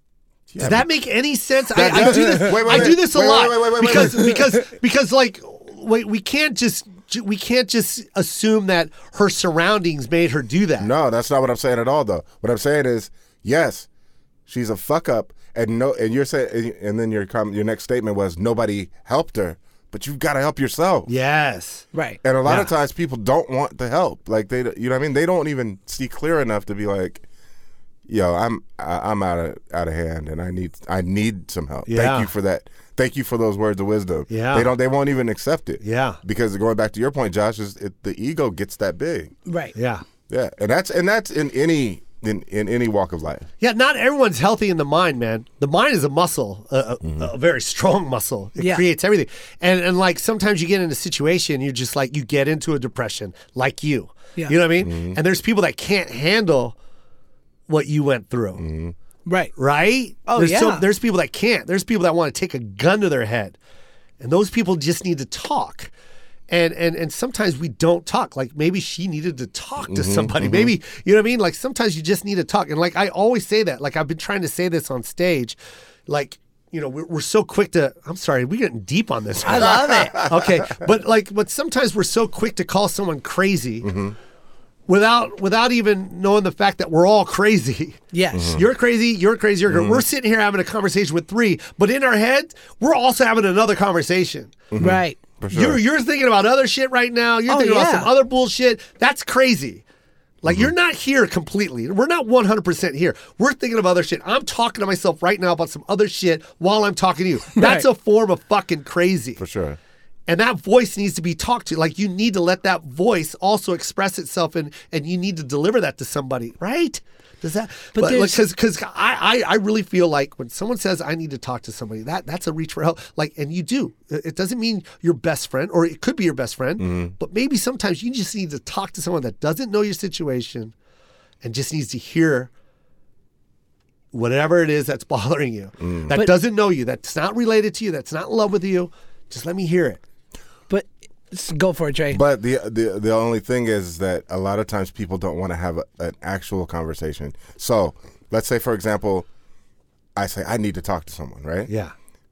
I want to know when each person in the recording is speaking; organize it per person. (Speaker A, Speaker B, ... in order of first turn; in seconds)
Speaker A: 0.5-0.9, 1.7-4.5, 10.8-13.9, 14.5-21.1, 22.2-27.2, 28.1-39.3, 40.3-43.5, 54.8-55.2, 58.6-58.9, 69.9-70.7, 79.8-80.4, 83.8-84.1, 88.3-88.6, 89.7-90.0, 94.7-95.8, 109.4-109.8, 126.8-127.1, 135.8-136.1, 142.1-149.3, 150.2-151.7
Speaker B: 0.6-10.9, 21.1-21.8, 22.4-22.7, 31.9-32.3, 34.3-34.7, 35.8-36.2, 39.7-40.0, 43.6-56.8, 57.7-58.6, 59.5-63.6, 64.2-65.9, 66.5-83.9, 84.9-88.0, 88.5-94.6, 95.5-99.8, 100.4-109.4, 110.3-130.7, 131.4-132.5, 134.1-140.0, 151.7-151.9
Speaker C: 1.9-2.9, 21.9-22.2, 39.5-39.7, 59.2-59.5, 60.3-60.9, 79.4-80.3, 88.1-88.6, 94.8-95.2, 97.5-98.1, 107.5-107.8, 117.9-118.4, 136.1-136.4, 140.7-142.2